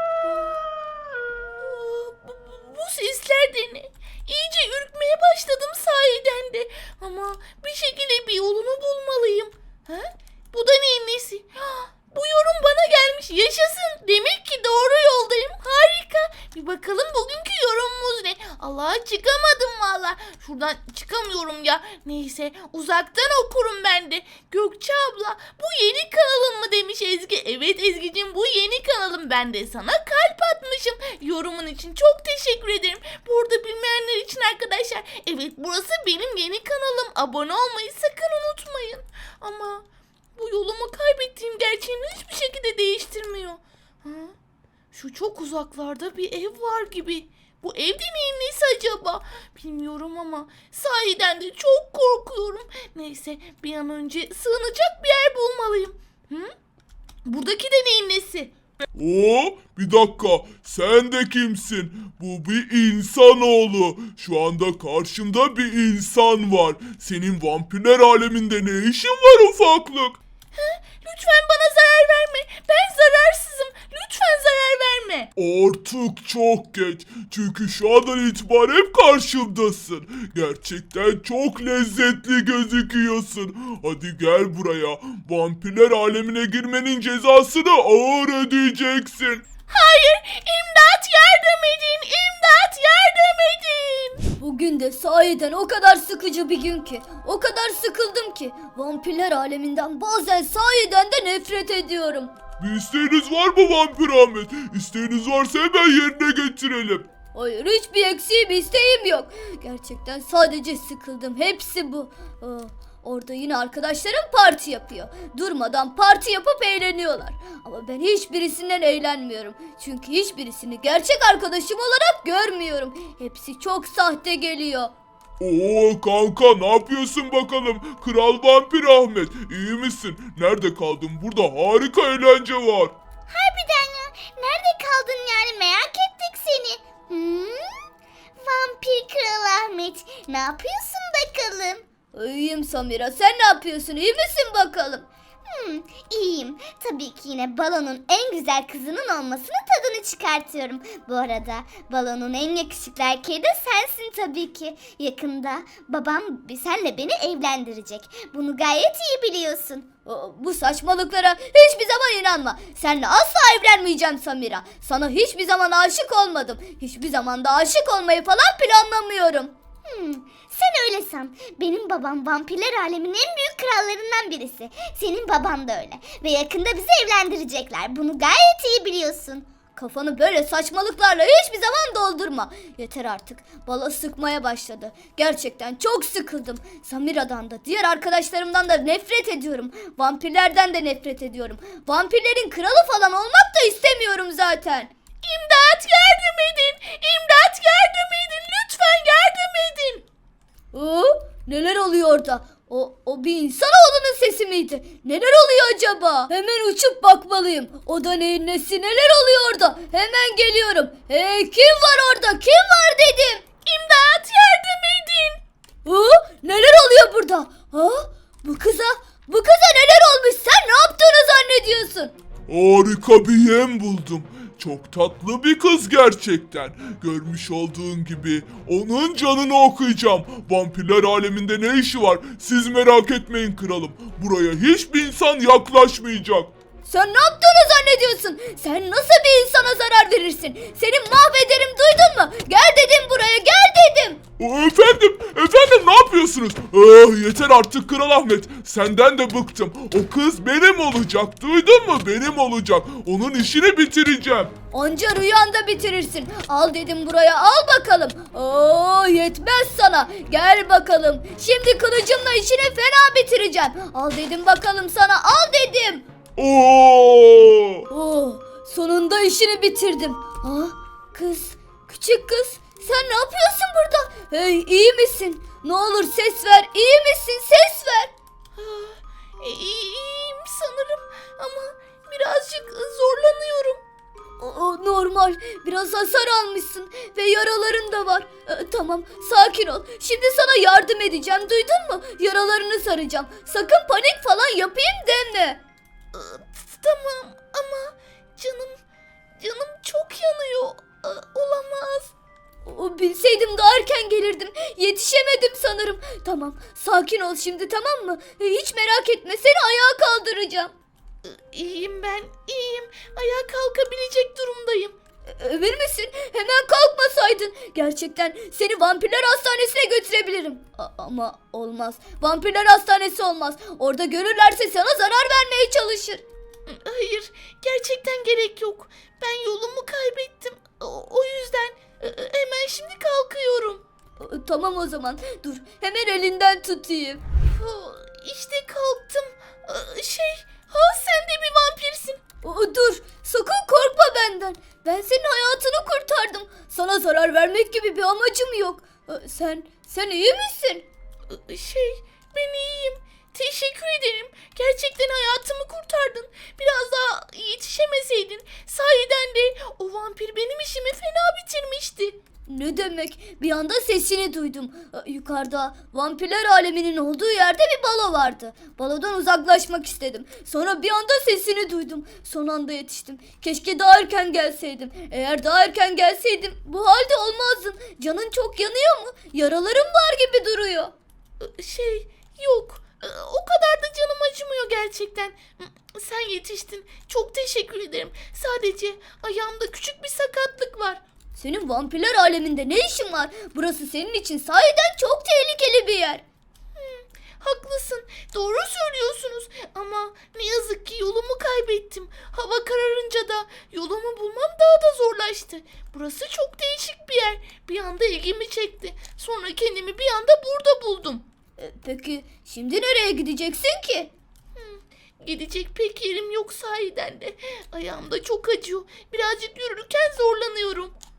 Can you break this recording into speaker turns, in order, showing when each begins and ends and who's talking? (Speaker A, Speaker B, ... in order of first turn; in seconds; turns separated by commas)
Speaker A: 0.2-0.6, Speaker A: 1.6-44.3, Speaker A: 44.9-56.5, Speaker A: 57.2-58.5, Speaker B: 58.9-70.2, Speaker A: 70.5-75.3, Speaker B: 75.3-89.4, Speaker A: 89.7-94.2, Speaker C: 94.4-102.3, Speaker B: 102.6-107.1, Speaker C: 107.3-124.9, Speaker B: 125.4-132.9, Speaker D: 133.3-137.8, Speaker D: 138.4-141.8, Speaker C: 142.1-145.1, Speaker D: 145.4-159.9, Speaker C: 160.0-169.5, Speaker D: 169.8-179.5, Speaker C: 179.7-194.9, Speaker A: 195.2-200.1, Speaker C: 200.7-213.4, Speaker A: 213.6-215.4, Speaker C: 215.8-222.1, Speaker B: 222.5-236.5, Speaker C: 236.8-244.2, Speaker B: 244.4-254.5, Speaker C: 254.7-266.1, Speaker B: 266.4-267.9, Speaker C: 267.9-278.1, Speaker A: 278.5-283.8, Speaker C: 284.4-295.6, Speaker A: 296.1-298.8, Speaker A: 299.4-302.1, Speaker C: 302.6-310.7, Speaker A: 311.2-314.9, Speaker C: 315.2-326.2, Speaker A: 326.6-333.8, Speaker C: 334.2-337.2, Speaker A: 337.5-342.2, Speaker C: 342.4-350.9, Speaker A: 351.3-362.2, Speaker C: 362.5-380.9, Speaker A: 381.4-391.0, Speaker C: 391.3-396.2, Speaker A: 396.7-411.2, Speaker C: 411.6-414.1, Speaker A: 414.5-420.9